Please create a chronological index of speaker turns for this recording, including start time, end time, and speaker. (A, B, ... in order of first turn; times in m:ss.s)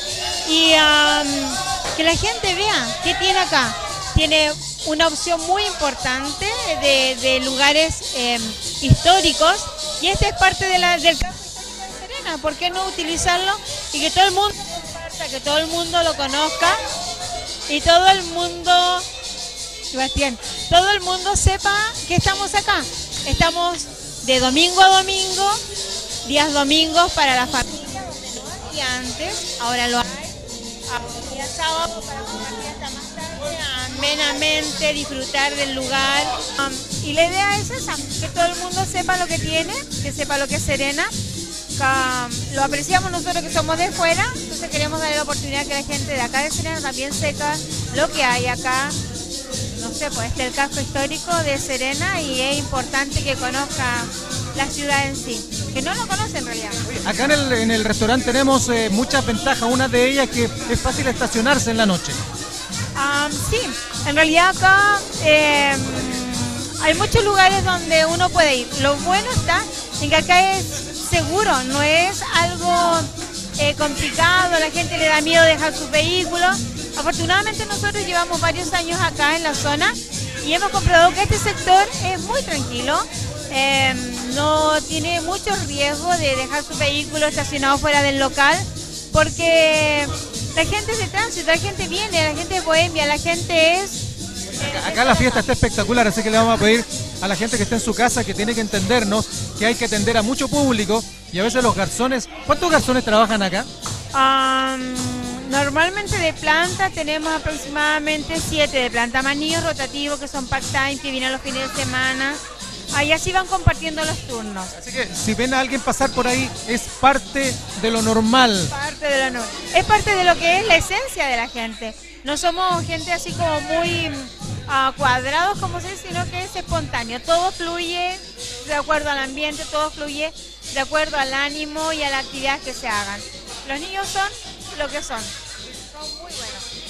0:00.4-0:16.8 A
0:17.7-0:19.0 A
0:19.9-0:25.6 A
0:26.2-0:30.3 A
0:30.9-0:41.1 A
0:41.8-0:49.0 A
0:49.8-0:56.8 A
0:56.9-1:02.2 B
1:02.9-1:34.0 A
1:34.6-1:43.7 B
1:34.9-1:35.4 A
1:44.1-1:52.4 A
1:52.9-1:54.7 A
1:54.8-1:58.7 B
1:58.7-2:15.3 A
2:15.9-2:16.6 A